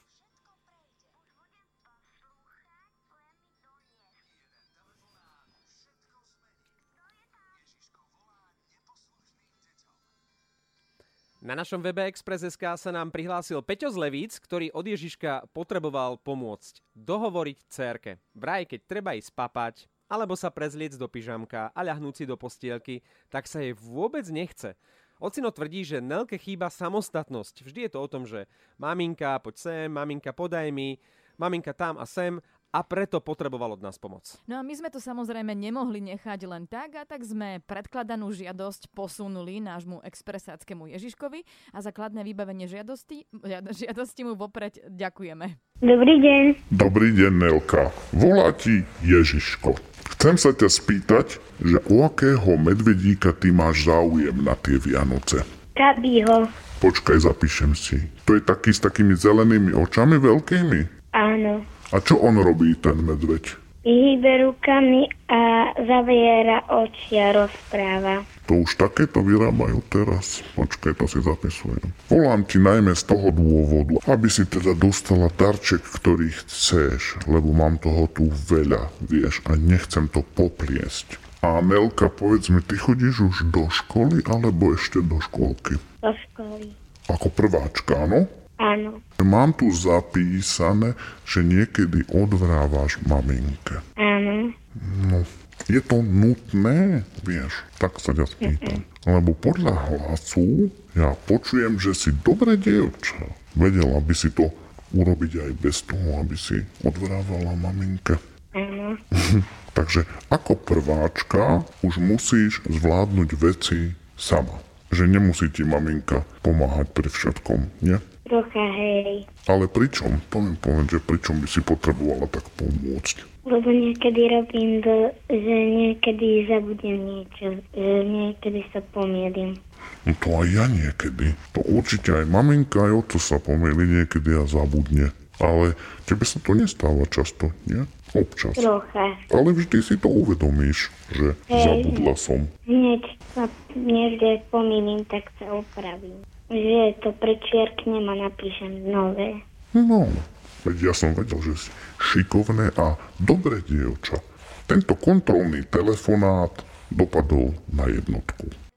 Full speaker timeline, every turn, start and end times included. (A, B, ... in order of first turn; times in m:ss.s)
0:11.4-0:34.4 A
0:34.5-0:45.6 B
0:45.8-0:46.6 C
0:46.7-0:55.4 D
0:55.8-0:56.5 C
0:56.8-1:00.9 D
1:01.1-1:01.7 C
1:01.9-1:03.6 D
1:03.8-1:08.2 C
1:08.4-1:25.8 D
1:26.0-1:26.7 C
1:27.1-1:28.3 D
1:28.6-1:29.0 C
1:29.2-1:33.8 D
1:34.0-1:34.5 C
1:34.8-1:48.2 D
1:38.4-1:38.8 C
1:48.5-1:49.0 C
1:49.1-1:58.0 D
1:58.2-1:59.3 C
1:59.4-2:03.3 D
2:03.5-2:09.6 C
2:10.0-2:18.7 D
2:18.6-2:19.2 C
2:19.3-2:22.5 D
2:21.5-2:22.1 C
2:22.7-2:29.4 C
2:29.7-2:38.5 D